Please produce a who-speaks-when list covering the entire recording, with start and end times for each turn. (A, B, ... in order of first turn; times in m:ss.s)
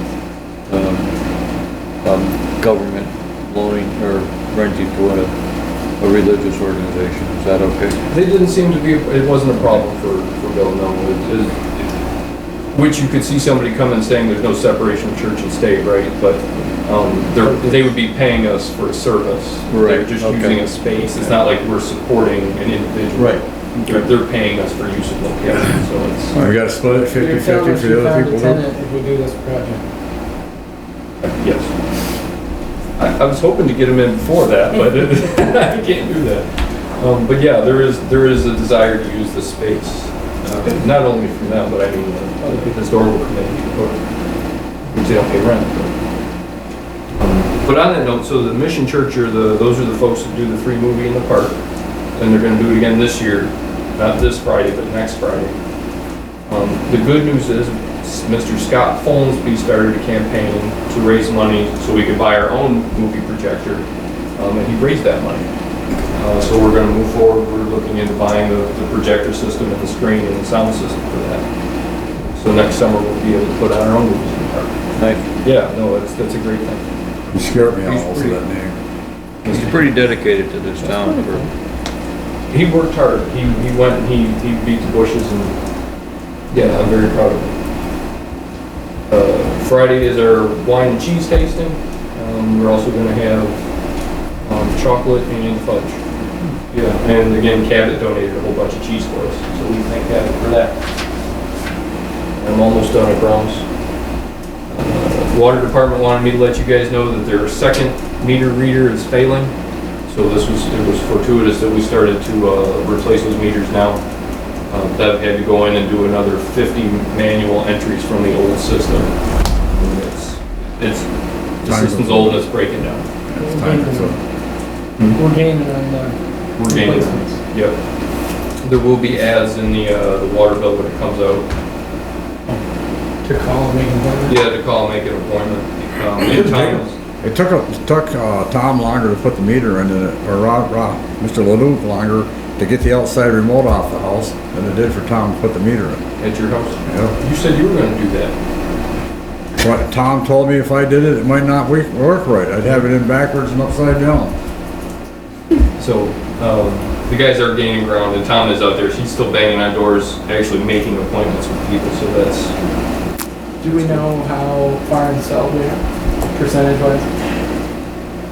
0:00.7-0:01.1 A
0:02.0-0:05.3 A
0:06.0-0:08.0 A
0:08.1-0:11.6 B
0:12.7-0:26.4 B
0:19.7-0:20.6 A
0:23.2-0:24.1 A
0:26.4-0:28.6 C
0:26.8-0:29.8 D
0:31.2-0:31.7 B
0:33.0-0:36.5 B
0:37.0-0:44.0 B
0:44.9-0:45.9 B
0:47.1-0:51.6 B
0:52.2-0:55.6 B
0:56.5-1:03.8 B
1:04.4-1:05.5 B
1:06.1-1:11.4 B
1:12.2-1:14.8 B
1:15.0-1:15.2 A
1:15.4-1:16.9 B
1:17.3-1:18.8 C
1:17.7-1:18.4 A
1:19.4-1:19.8 B
1:19.5-1:21.5 A
1:20.8-1:21.4 D
1:22.5-1:25.5 B
1:26.5-1:27.6 B
1:29.1-1:33.6 B
1:34.4-1:36.0 B
1:36.7-1:40.8 B
1:42.4-1:43.6 B
1:44.7-1:49.5 B
1:50.1-1:54.0 B
1:54.7-1:59.1 B
1:59.7-2:01.1 B
2:01.6-2:03.1 B
2:01.7-2:02.5 C
2:03.3-2:04.2 C
2:03.4-2:04.2 D
2:05.1-2:07.4 D
2:06.6-2:07.8 B
2:08.6-2:11.5 B
2:13.2-2:14.4 D
2:14.3-2:17.0 B
2:16.2-2:26.0 C
2:26.2-2:28.4 B
2:26.9-2:27.2 C
2:29.6-2:34.4 C
2:35.8-2:42.6 B
2:43.6-2:47.1 D
2:43.7-2:44.0 B